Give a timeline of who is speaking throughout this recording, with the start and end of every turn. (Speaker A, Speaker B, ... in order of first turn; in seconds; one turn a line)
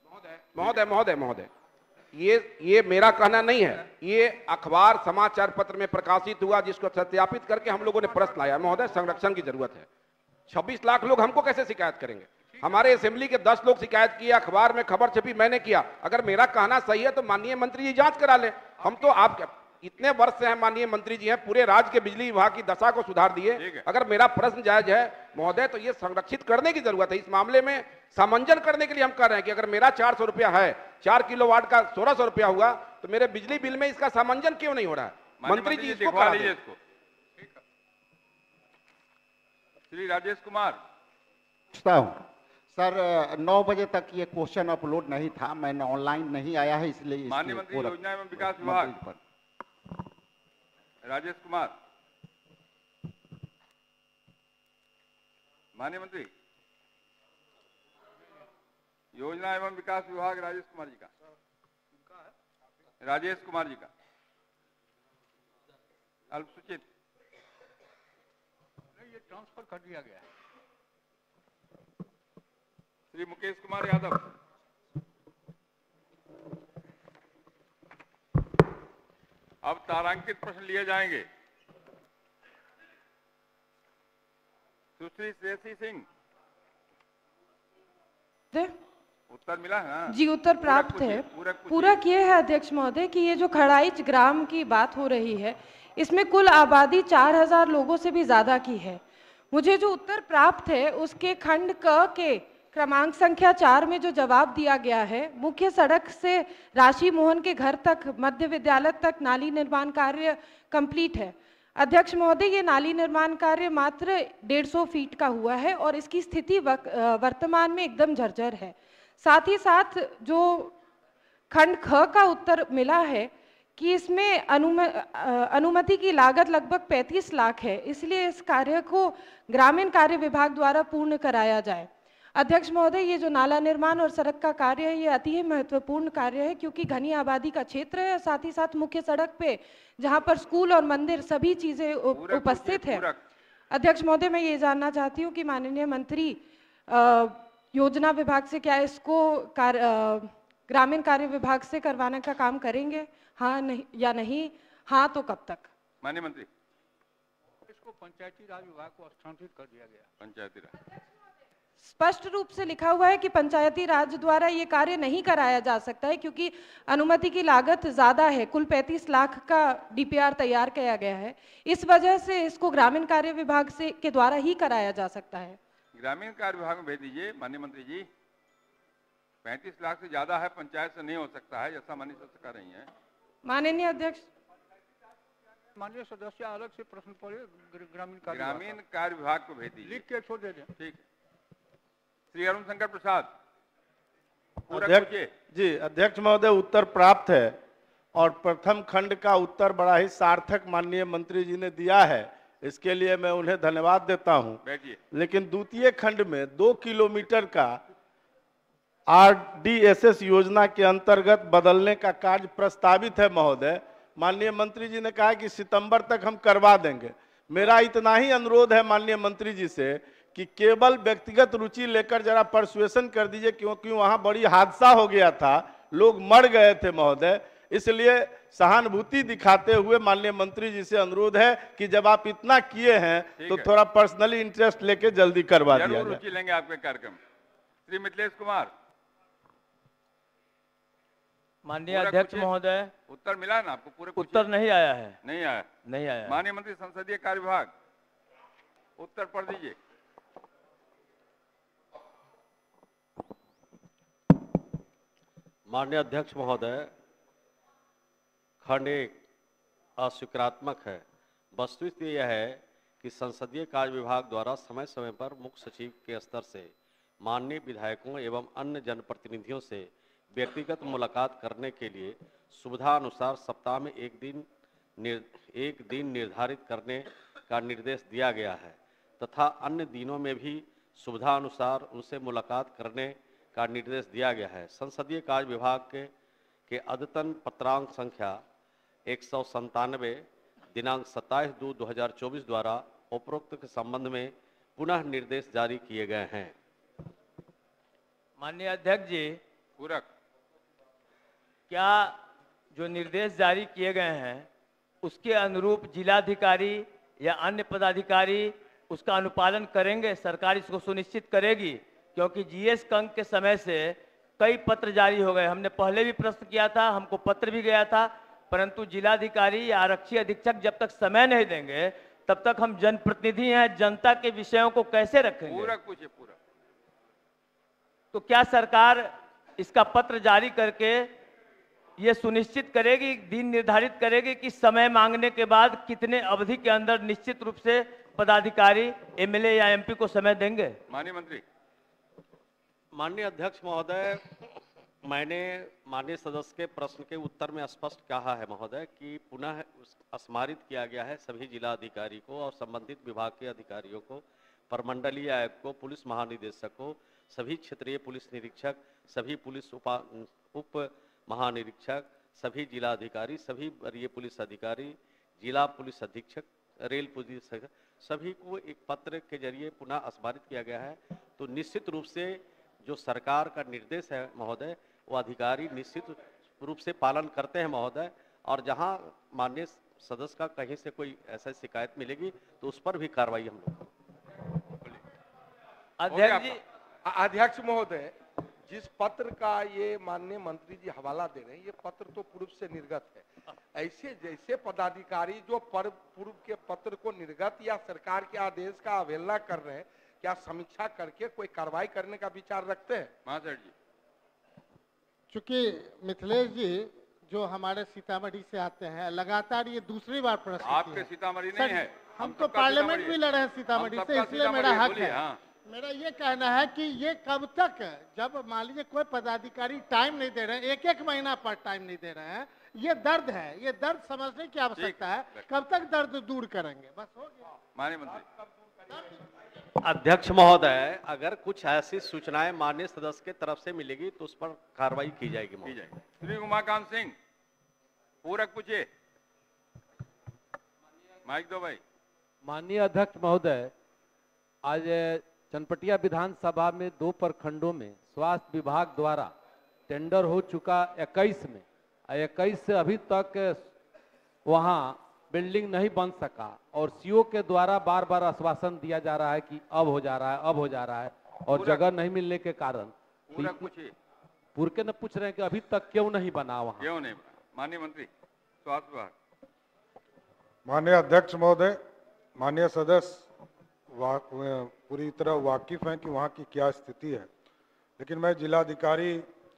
Speaker A: 0.6-1.5
Speaker A: 2.1-9.9
Speaker B: 8.0-9.0
Speaker A: 10.5-36.5
Speaker B: 18.8-19.2
Speaker C: 23.6-23.8
Speaker C: 35.4-36.8
Speaker C: 39.9-40.8
Speaker D: 41.7-49.2
Speaker C: 47.3-49.0
Speaker C: 51.0-51.7
Speaker C: 55.8-56.3
Speaker C: 59.1-61.1
Speaker C: 63.0-63.9
Speaker C: 66.3-66.8
Speaker B: 69.0-70.3
Speaker C: 73.1-74.2
Speaker C: 79.6-81.3
Speaker C: 85.0-86.0
Speaker C: 89.3-92.0
Speaker E: 90.1-120.7
Speaker E: 121.5-143.1
Speaker C: 142.1-143.2
Speaker E: 143.7-155.7
Speaker C: 156.0-156.5
Speaker B: 157.7-160.1
Speaker C: 160.2-160.7
Speaker E: 161.8-175.6
Speaker C: 176.0-178.1
Speaker C: 179.4-182.9
Speaker E: 183.4-184.3
Speaker B: 185.8-188.8
Speaker C: 188.3-190.0
Speaker B: 189.8-190.7
Speaker C: 192.3-193.3
Speaker F: 194.7-197.6
Speaker C: 194.7-195.3
Speaker F: 198.1-204.6
Speaker C: 204.6-205.0
Speaker F: 205.1-207.8
Speaker F: 209.1-236.2
Speaker C: 233.4-233.7
Speaker C: 235.7-237.2
Speaker C: 237.9-238.7
Speaker G: 241.7-242.9
Speaker C: 241.9-242.5
Speaker C: 243.1-244.5
Speaker G: 244.2-245.2
Speaker C: 245.2-245.7
Speaker G: 245.9-246.4
Speaker C: 246.3-247.7
Speaker C: 249.0-249.8
Speaker H: 255.7-256.9
Speaker H: 258.6-259.2
Speaker H: 260.0-261.0
Speaker H: 261.6-266.7
Speaker H: 267.2-274.5
Speaker H: 275.0-286.1
Speaker H: 286.7-288.4
Speaker H: 289.1-296.5
Speaker G: 298.4-299.4
Speaker C: 299.8-300.1
Speaker G: 301.7-302.2
Speaker G: 302.7-304.5
Speaker G: 305.0-325.7
Speaker C: 325.5-326.4
Speaker G: 328.1-331.1
Speaker G: 332.0-340.8
Speaker C: 340.9-341.4
Speaker H: 342.9-344.2
Speaker H: 345.0-383.9
Speaker G: 386.0-386.6
Speaker C: 386.1-386.6
Speaker I: 387.1-388.1
Speaker I: 388.7-403.1
Speaker C: 403.3-403.7
Speaker J: 405.3-427.4
Speaker C: 410.6-413.2
Speaker C: 413.7-415.4
Speaker C: 424.8-425.4
Speaker C: 427.8-428.2
Speaker H: 429.8-435.8
Speaker C: 435.6-437.1
Speaker C: 438.2-438.9
Speaker C: 441.3-441.8
Speaker K: 442.4-443.7
Speaker K: 444.6-449.3
Speaker K: 449.9-453.7
Speaker K: 454.5-463.7
Speaker C: 461.5-461.9
Speaker C: 463.3-463.9
Speaker K: 464.6-466.9
Speaker C: 466.8-468.1
Speaker C: 468.6-469.1
Speaker L: 470.6-471.8
Speaker L: 472.4-473.3
Speaker L: 473.9-477.3
Speaker L: 478.0-479.3